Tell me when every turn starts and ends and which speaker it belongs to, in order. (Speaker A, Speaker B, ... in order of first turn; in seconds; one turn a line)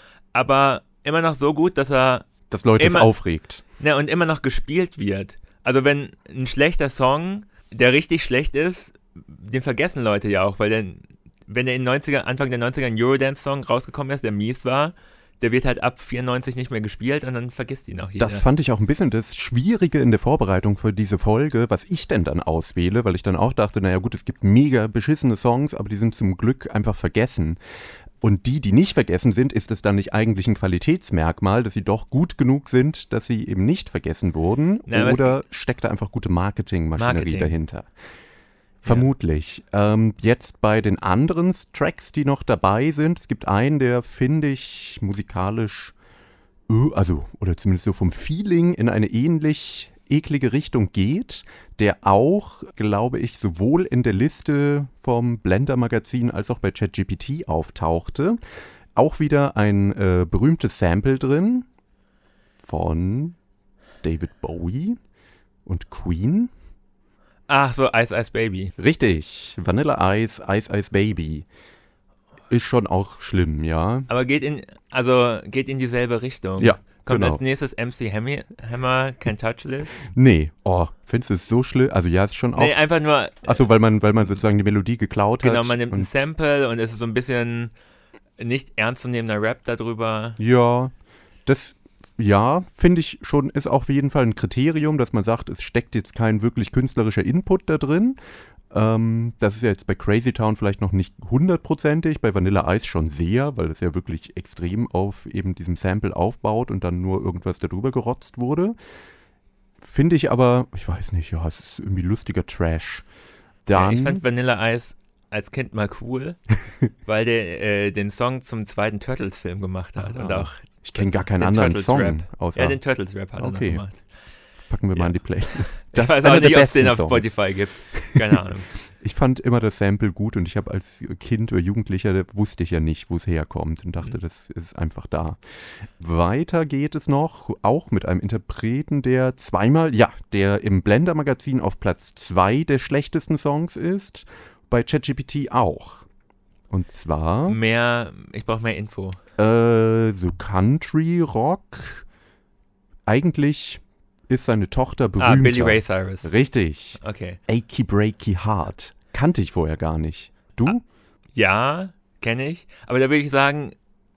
Speaker A: 0.3-2.3
Speaker B: 2.5-3.6
Speaker A: 2.8-3.1
Speaker A: 3.8-18.4
Speaker B: 18.2-27.6
Speaker B: 28.2-37.9
Speaker A: 34.9-35.4
Speaker A: 37.0-37.5
Speaker B: 38.8-46.0
Speaker B: 46.7-58.4
Speaker B: 59.0-61.7
Speaker B: 62.6-63.4
Speaker B: 64.0-65.0
Speaker B: 65.7-66.5
Speaker A: 67.5-68.7
Speaker B: 68.8-71.5
Speaker B: 72.5-74.1
Speaker A: 74.1-79.9
Speaker B: 76.6-77.4
Speaker B: 80.0-82.8
Speaker A: 82.6-83.7
Speaker B: 83.4-86.2
Speaker A: 85.4-87.7
Speaker A: 88.4-90.4
Speaker B: 90.4-90.9
Speaker B: 91.5-98.2
Speaker B: 98.7-108.8
Speaker B: 109.8-113.1
Speaker B: 113.7-114.2
Speaker A: 113.7-116.4
Speaker A: 117.0-124.0
Speaker B: 120.0-122.8
Speaker B: 123.4-123.9
Speaker B: 124.7-128.4
Speaker A: 125.0-128.7
Speaker B: 129.0-146.1
Speaker B: 146.7-147.6
Speaker A: 147.5-149.2
Speaker B: 149.4-152.1
Speaker B: 153.1-160.8
Speaker A: 155.2-156.3
Speaker A: 157.0-157.4
Speaker A: 161.4-163.8